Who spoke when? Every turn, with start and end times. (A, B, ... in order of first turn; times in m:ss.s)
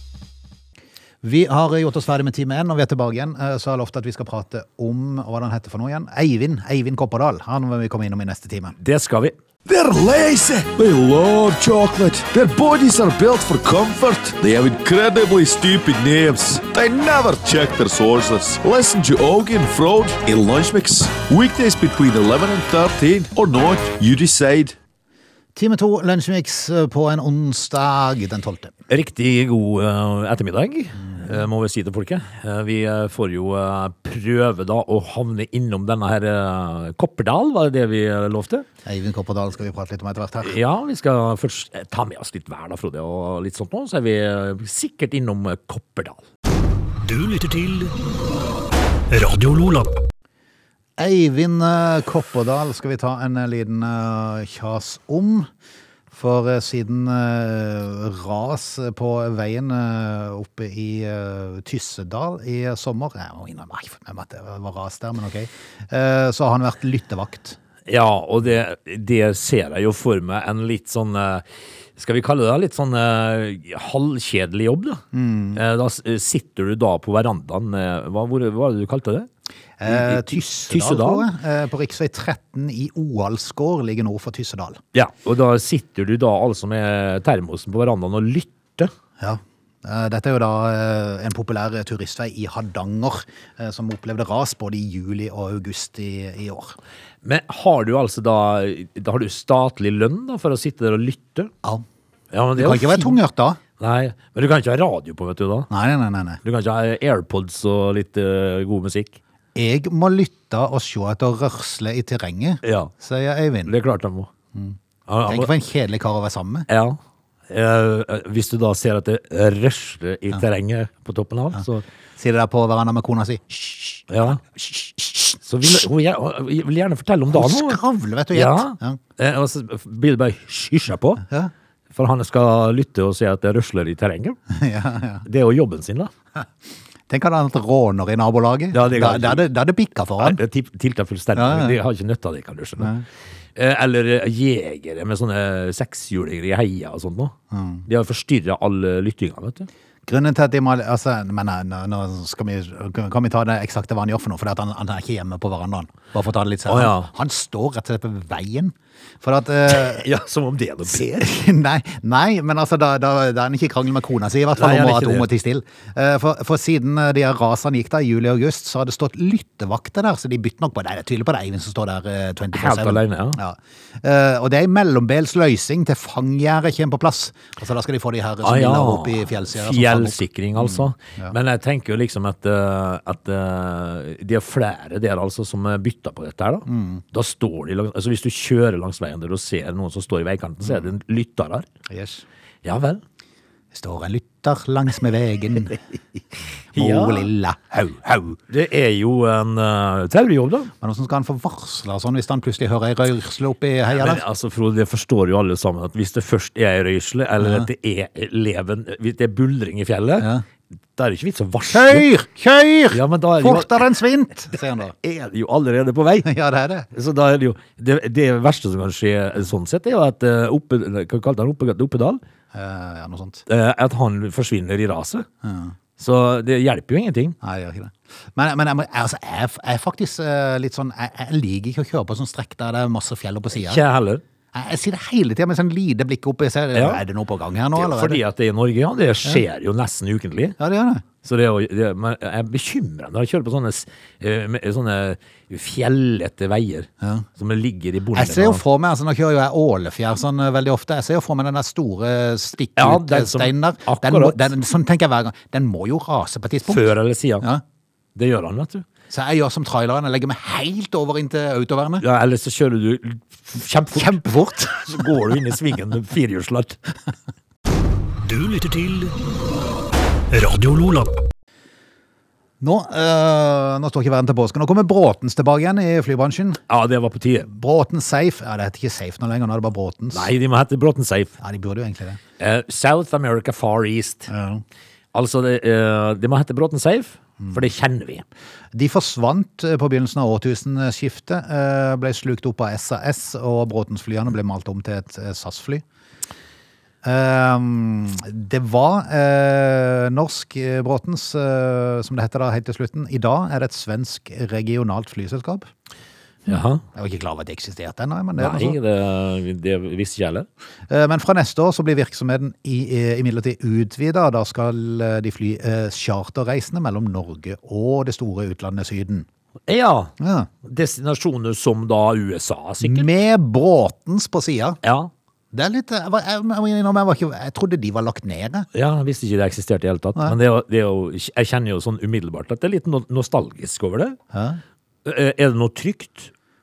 0:01.2-0:08.8 A
0:08.8-0:09.3 B
0:09.6-0:24.8 C
0:25.6-0:28.7 A
0:28.9-0:38.6 B
0:38.8-0:40.5 A
0:40.4-0:46.2 B
0:47.0-0:47.9 D
0:49.1-0:49.9 D
0:51.0-0:55.5 A
0:56.1-1:07.6 A
1:07.8-1:11.4 B
1:12.0-1:15.0 B
1:15.1-1:15.6 A
1:15.5-1:19.3 B
1:19.8-1:24.8 A
1:19.8-1:21.3 B
1:24.9-1:28.9 B
1:29.2-1:36.8 A
1:37.2-1:41.5 B
1:42.3-1:43.2 B
1:42.6-1:43.6 A
1:43.8-1:45.7 B
1:45.7-1:46.4 A
1:46.4-1:49.2 B
1:49.5-1:53.7 A
1:52.6-1:52.9 B
1:53.6-1:54.3 B
1:54.5-1:56.7 A
1:55.1-1:55.5 B
1:56.7-2:01.8 B
2:02.2-2:05.8 A
2:04.1-2:04.4 B
2:05.4-2:07.8 B
2:07.3-2:09.0 A
2:08.3-2:11.2 B
2:11.2-2:11.5 A
2:11.9-2:14.4 B
2:14.5-2:15.2 A
2:15.2-2:16.1 B
2:17.1-2:20.4 A
2:18.7-2:19.5 B
2:20.2-2:22.9 B
2:21.3-2:21.8 A
2:22.8-2:23.0 A
2:23.6-2:27.3 B
2:27.5-2:27.8 A
2:27.8-2:29.7 B
2:30.0-2:40.1 A
2:36.7-2:37.1 B
2:39.7-2:41.2 B
2:40.9-3:01.4 A
2:44.5-2:45.3 B
2:52.5-2:53.4 B
2:58.4-3:11.7 B
3:06.6-3:07.0 A
3:11.9-3:12.2 A
3:12.6-3:13.0 B
3:13.7-3:16.0 A
3:16.7-3:18.4 A
3:16.7-3:17.3 B
3:18.5-3:20.7 B
3:20.8-3:24.2 A
3:23.9-3:30.3 B
3:27.4-3:27.7 A
3:30.2-3:30.4 A
3:31.0-3:32.1 B
3:31.7-3:34.9 A
3:32.9-3:33.9 B
3:34.9-3:36.3 B
3:36.2-3:36.9 A
3:36.9-3:42.2 B
3:42.5-3:43.4 A
3:43.5-3:45.3 B
3:45.4-3:45.7 A
3:46.0-3:47.4 B
3:47.4-3:53.8 A
3:53.5-3:54.2 B
3:54.5-3:58.2 A
3:56.7-3:57.0 B
3:57.7-4:00.6 B
4:00.6-4:01.0 A
4:01.2-4:08.6 B
4:08.1-4:16.9 A
4:12.8-4:14.5 B
4:16.7-4:17.5 B
4:18.1-4:18.8 B
4:19.1-4:22.0 A
4:22.0-4:24.2 B
4:23.9-4:25.2 A
4:24.7-4:26.8 B
4:28.2-4:29.2 D
4:30.3-4:31.1 D
4:32.6-4:36.6 A
4:36.7-4:37.5 B
4:37.4-4:40.3 A
4:40.1-4:41.3 B
4:41.4-4:42.2 A
4:42.4-4:44.3 B
4:44.3-4:44.6 A
4:45.1-4:48.2 B
4:48.7-4:55.8 A
4:57.0-5:05.7 A
5:06.5-5:06.8 B
5:06.9-5:08.8 A
5:08.4-5:10.5 B
5:10.9-5:19.2 A
5:19.7-5:23.1 B
5:20.2-5:20.5 A
5:22.8-5:24.8 A
5:24.8-5:25.1 B
5:25.5-5:28.7 A
5:28.7-5:34.2 B
5:34.3-5:34.6 A
5:35.0-5:36.3 B